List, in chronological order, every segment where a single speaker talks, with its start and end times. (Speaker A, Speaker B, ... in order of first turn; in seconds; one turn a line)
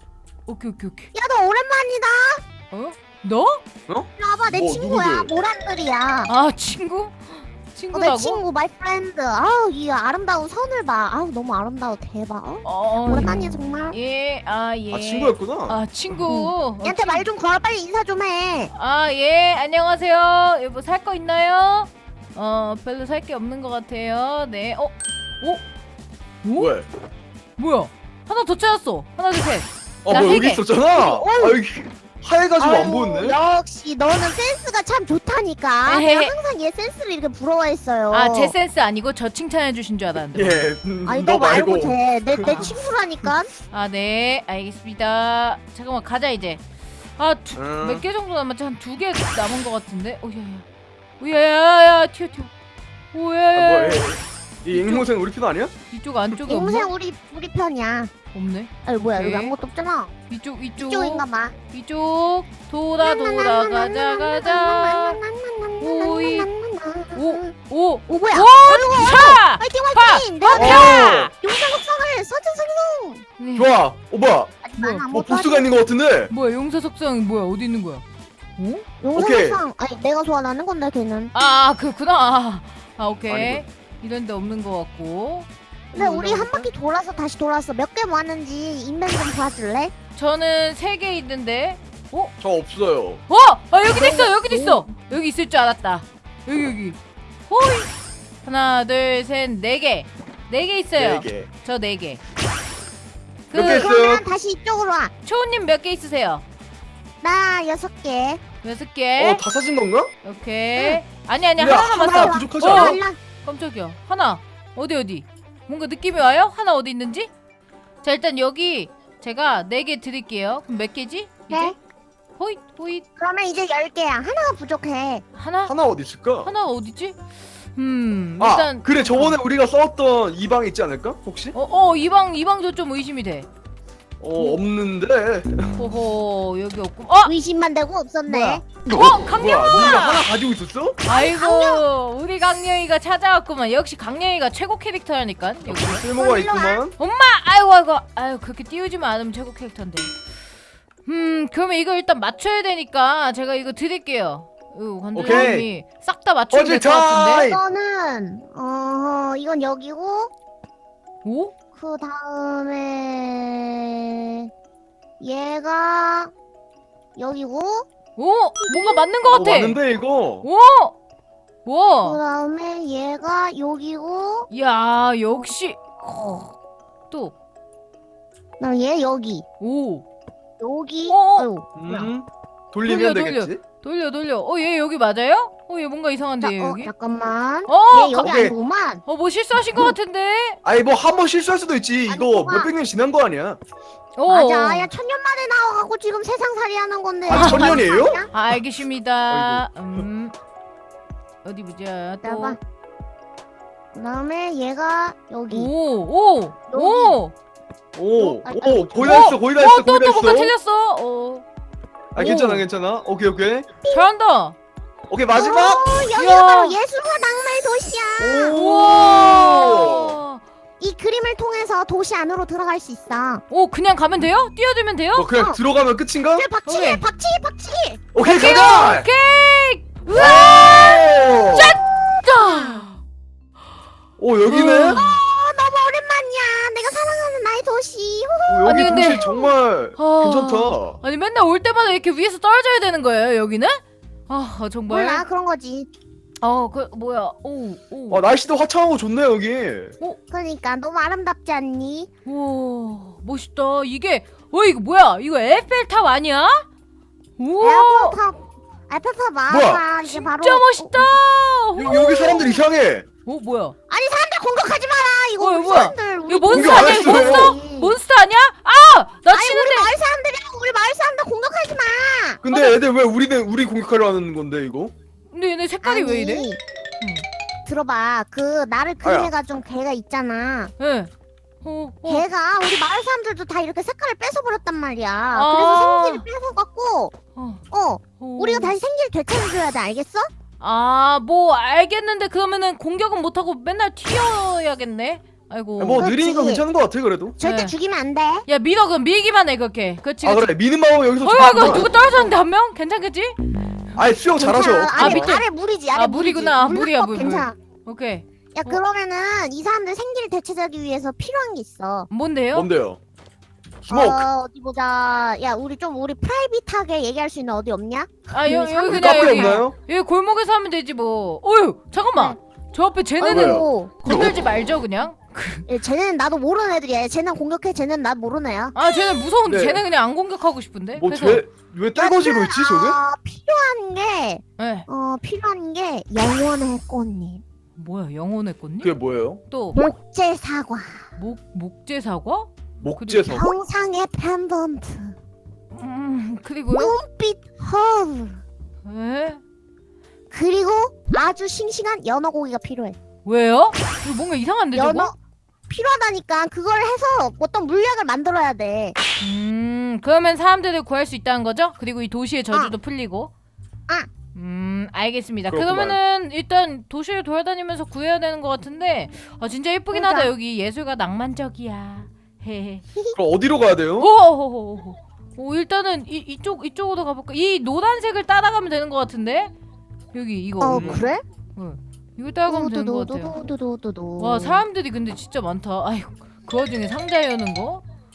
Speaker A: 0.5-1.1
Speaker B: 1.1-2.4
Speaker A: 2.7-3.6
Speaker C: 3.9-5.3
Speaker B: 4.2-6.3
Speaker A: 6.3-8.4
Speaker B: 7.9-13.9
Speaker A: 12.6-13.3
Speaker A: 13.9-17.2
Speaker C: 14.9-15.8
Speaker B: 16.3-18.7
Speaker A: 18.7-25.6
Speaker A: 26.4-26.7
Speaker C: 26.6-26.9
Speaker A: 27.6-30.6
Speaker C: 30.0-33.4
Speaker B: 30.9-31.6
Speaker B: 32.6-38.5
Speaker A: 35.9-36.3
Speaker A: 38.1-40.6
Speaker C: 40.3-42.6
Speaker B: 41.0-43.5
Speaker A: 42.4-42.7
Speaker A: 43.7-46.6
Speaker A: 47.2-50.6
Speaker C: 47.5-48.0
Speaker A: 51.2-52.5
Speaker A: 53.1-54.1
Speaker C: 53.5-55.7
Speaker A: 54.7-55.1
Speaker A: 55.9-56.9
Speaker B: 56.5-58.1
Speaker A: 58.3-59.5
Speaker B: 58.8-60.1
Speaker A: 60.3-65.2
Speaker B: 60.8-61.5
Speaker B: 63.0-67.5
Speaker A: 65.8-66.5
Speaker A: 67.1-71.3
Speaker B: 68.1-73.2
Speaker C: 70.5-71.3
Speaker A: 73.4-73.7
Speaker C: 73.5-74.5
Speaker B: 74.6-75.7
Speaker A: 74.8-75.0
Speaker C: 75.1-76.3
Speaker A: 76.3-78.0
Speaker A: 78.6-78.8
Speaker B: 79.0-81.3
Speaker C: 79.1-79.6
Speaker A: 81.3-86.7
Speaker C: 83.3-83.6
Speaker B: 85.9-89.9
Speaker A: 90.2-92.3
Speaker C: 92.4-93.2
Speaker A: 93.3-97.9
Speaker B: 93.8-94.8
Speaker A: 98.4-102.2
Speaker C: 101.0-101.5
Speaker A: 103.5-103.9
Speaker C: 103.5-104.2
Speaker B: 103.5-105.1
Speaker A: 105.2-106.4
Speaker B: 107.2-108.4
Speaker A: 108.6-109.4
Speaker C: 109.2-110.1
Speaker A: 110.2-117.3
Speaker B: 110.8-111.0
Speaker C: 111.6-113.0
Speaker B: 111.7-113.2
Speaker A: 118.0-121.8
Speaker B: 121.5-121.8
Speaker A: 122.4-123.0
Speaker B: 123.2-125.2
Speaker A: 125.3-125.7
Speaker C: 125.7-126.5
Speaker A: 126.4-127.2
Speaker A: 127.7-129.4
Speaker C: 128.4-131.5
Speaker A: 131.5-133.5
Speaker C: 134.2-135.8
Speaker A: 135.8-137.3
Speaker B: 137.2-138.6
Speaker A: 138.3-140.3
Speaker C: 139.2-141.0
Speaker A: 141.0-146.0
Speaker B: 141.1-141.8
Speaker C: 145.7-146.9
Speaker B: 146.1-146.8
Speaker A: 147.0-150.1
Speaker A: 151.1-157.4
Speaker C: 155.1-155.7
Speaker B: 155.2-155.5
Speaker C: 156.5-157.6
Speaker B: 157.4-160.3
Speaker A: 161.2-161.5
Speaker B: 161.8-164.5
Speaker B: 165.2-166.3
Speaker B: 167.2-167.8
Speaker A: 168.2-169.8
Speaker B: 168.6-169.0
Speaker C: 169.3-170.5
Speaker A: 170.4-170.9
Speaker A: 171.6-172.2
Speaker B: 172.0-174.5
Speaker A: 174.5-175.8
Speaker B: 175.3-176.5
Speaker B: 178.6-179.4
Speaker A: 179.6-180.0
Speaker B: 180.6-182.1
Speaker A: 181.1-181.5
Speaker C: 181.8-183.6
Speaker A: 182.8-186.9
Speaker B: 186.4-189.0
Speaker A: 187.7-188.4
Speaker C: 188.2-188.5
Speaker A: 189.0-190.6
Speaker C: 190.6-193.6
Speaker B: 192.1-192.7
Speaker A: 194.2-194.9
Speaker B: 194.3-198.3
Speaker C: 197.3-198.3
Speaker A: 197.3-200.3
Speaker C: 199.3-199.7
Speaker A: 201.4-202.6
Speaker B: 202.2-202.6
Speaker B: 203.9-205.7
Speaker A: 205.5-207.3
Speaker B: 206.7-207.2
Speaker C: 207.9-210.5
Speaker B: 208.2-209.2
Speaker A: 209.0-211.4
Speaker C: 212.1-213.7
Speaker A: 212.2-212.7
Speaker A: 213.9-214.6
Speaker C: 215.1-216.1
Speaker B: 215.3-218.6
Speaker A: 216.1-216.8
Speaker C: 218.2-220.2
Speaker A: 218.5-220.4
Speaker B: 220.8-223.4
Speaker A: 223.5-225.3
Speaker C: 225.1-226.5
Speaker B: 225.3-225.6
Speaker B: 226.3-229.0
Speaker A: 226.6-227.0
Speaker C: 228.1-229.1
Speaker A: 228.7-233.0
Speaker C: 230.1-231.8
Speaker B: 232.1-232.8
Speaker C: 234.2-235.1
Speaker A: 234.4-235.0
Speaker B: 234.9-239.5
Speaker C: 238.5-241.0
Speaker A: 238.6-239.3
Speaker A: 239.9-245.2
Speaker B: 244.9-245.9
Speaker A: 246.4-248.2
Speaker C: 248.1-249.9
Speaker B: 250.3-252.1
Speaker A: 252.2-256.6
Speaker A: 257.4-258.2
Speaker B: 257.6-260.9
Speaker C: 259.5-259.8
Speaker A: 260.0-262.6
Speaker C: 261.8-263.0
Speaker A: 263.2-263.8
Speaker B: 263.9-268.0
Speaker A: 265.4-269.9
Speaker C: 266.5-267.6
Speaker B: 269.3-272.7
Speaker C: 272.4-274.9
Speaker A: 275.3-276.5
Speaker B: 275.8-276.6
Speaker B: 277.6-280.7
Speaker C: 279.0-279.3
Speaker A: 280.8-281.1
Speaker A: 281.6-282.2
Speaker B: 282.0-287.1
Speaker A: 285.3-286.2
Speaker A: 287.4-287.6
Speaker B: 287.7-290.3
Speaker A: 288.2-288.7
Speaker A: 290.6-296.1
Speaker C: 295.8-297.4
Speaker B: 295.9-296.6
Speaker B: 297.4-298.4
Speaker A: 297.4-297.7
Speaker A: 298.5-300.5
Speaker C: 300.2-301.9
Speaker A: 301.2-303.4
Speaker C: 303.9-305.3
Speaker B: 304.4-307.5
Speaker A: 304.9-308.8
Speaker B: 308.5-312.1
Speaker A: 312.1-312.7
Speaker C: 312.5-313.0
Speaker C: 313.8-314.2
Speaker B: 313.9-319.6
Speaker A: 318.3-325.7
Speaker C: 318.9-319.7
Speaker B: 323.2-323.9
Speaker C: 323.3-323.6
Speaker B: 325.7-328.8
Speaker A: 328.7-331.4
Speaker C: 329.4-329.8
Speaker C: 331.0-333.0
Speaker B: 331.9-337.4
Speaker A: 334.6-334.9
Speaker A: 337.8-338.9
Speaker C: 338.8-339.4
Speaker A: 339.5-339.9
Speaker B: 339.7-341.0
Speaker A: 341.1-343.5
Speaker C: 342.8-343.5
Speaker B: 343.3-345.1
Speaker A: 345.7-346.9
Speaker B: 346.7-348.4
Speaker A: 348.8-349.4
Speaker B: 350.3-353.0
Speaker A: 353.2-355.1
Speaker B: 354.7-355.1
Speaker B: 355.7-359.0
Speaker A: 359.2-363.3
Speaker A: 364.3-372.8
Speaker C: 365.5-366.0
Speaker B: 369.9-370.3
Speaker C: 373.1-374.1
Speaker A: 374.0-379.5
Speaker A: 380.1-383.3
Speaker B: 380.6-381.2
Speaker C: 380.7-381.1
Speaker B: 382.5-384.6
Speaker A: 384.2-387.8